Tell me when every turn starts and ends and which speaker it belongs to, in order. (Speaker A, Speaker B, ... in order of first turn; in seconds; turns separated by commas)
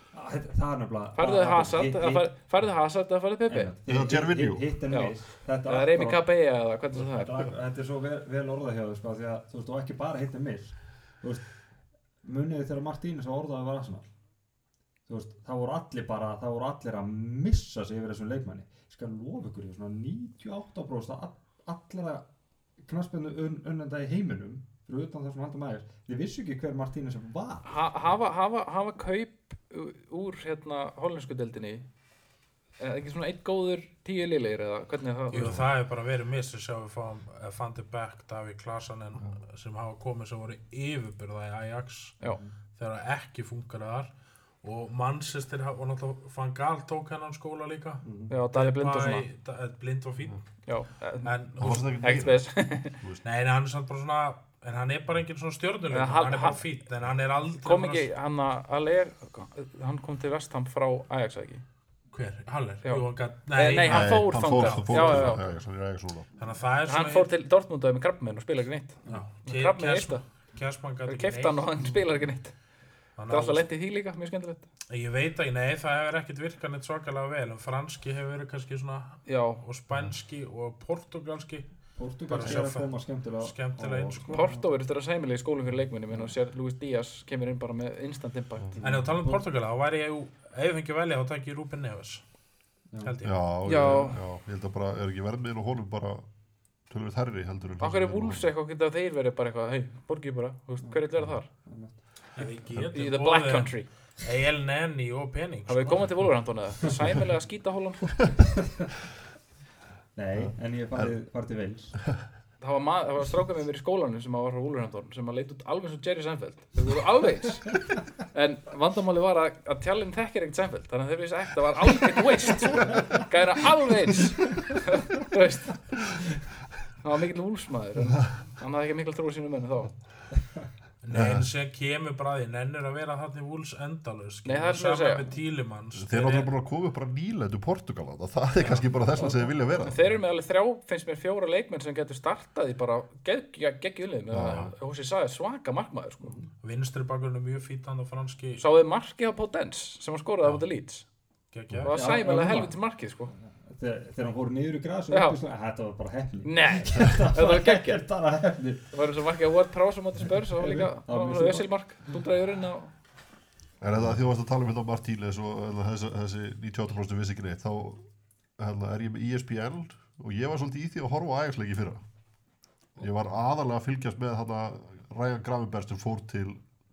Speaker A: 0.1-2.3, Speaker B: 1.1-3.7, Speaker A: 3.5-6.2, Speaker C: 3.9-4.7, Speaker B: 4.9-7.4, Speaker A: 6.9-11.5, Speaker A: 12.2-14.1, Speaker A: 15.1-22.2, Speaker A: 22.8-27.7, Speaker B: 27.6-31.9, Speaker B: 32.8-35.6, Speaker D: 35.3-42.2, Speaker C: 35.4-35.6, Speaker D: 42.8-44.1, Speaker D: 44.6-50.4, Speaker A: 48.0-48.3, Speaker B: 48.3-49.2, Speaker B: 50.6-53.0, Speaker D: 51.2-51.8, Speaker C: 51.6-52.5, Speaker C: 53.0-53.2, Speaker D: 53.2-58.1, Speaker B: 55.9-56.6, Speaker B: 57.6-61.6, Speaker D: 62.1-65.4, Speaker B: 62.8-65.5, Speaker C: 63.9-66.3, Speaker D: 66.4-67.3, Speaker B: 66.8-70.2, Speaker D: 69.1-71.6, Speaker B: 71.0-72.5, Speaker D: 73.2-73.7, Speaker B: 73.3-74.7, Speaker D: 74.9-81.7, Speaker B: 79.2-79.6, Speaker A: 82.0-84.7, Speaker D: 82.3-84.5, Speaker B: 84.3-88.8, Speaker A: 88.8-89.4, Speaker D: 88.8-92.2, Speaker D: 93.0-93.3, Speaker C: 93.2-96.3, Speaker B: 93.6-94.2, Speaker C: 96.9-98.5, Speaker B: 97.8-101.5, Speaker A: 100.8-102.0, Speaker D: 102.3-106.1, Speaker B: 102.8-103.9, Speaker B: 105.7-108.2, Speaker A: 108.6-108.9, Speaker A: 110.2-112.0, Speaker C: 110.4-111.1, Speaker B: 112.6-125.9, Speaker B: 127.0-129.9, Speaker D: 131.0-136.5, Speaker C: 131.1-131.5, Speaker B: 134.4-135.3, Speaker C: 135.9-140.1, Speaker A: 138.7-139.5, Speaker B: 139.8-146.4, Speaker C: 144.3-144.7, Speaker A: 146.2-146.5, Speaker D: 146.6-148.6, Speaker B: 148.6-151.1, Speaker D: 151.5-152.0, Speaker B: 151.8-153.3, Speaker A: 151.9-152.8, Speaker A: 153.5-158.9, Speaker B: 155.1-155.4, Speaker B: 156.4-158.0, Speaker B: 158.9-162.9, Speaker A: 160.5-162.2, Speaker C: 163.8-168.0, Speaker C: 168.6-172.0, Speaker C: 173.0-176.6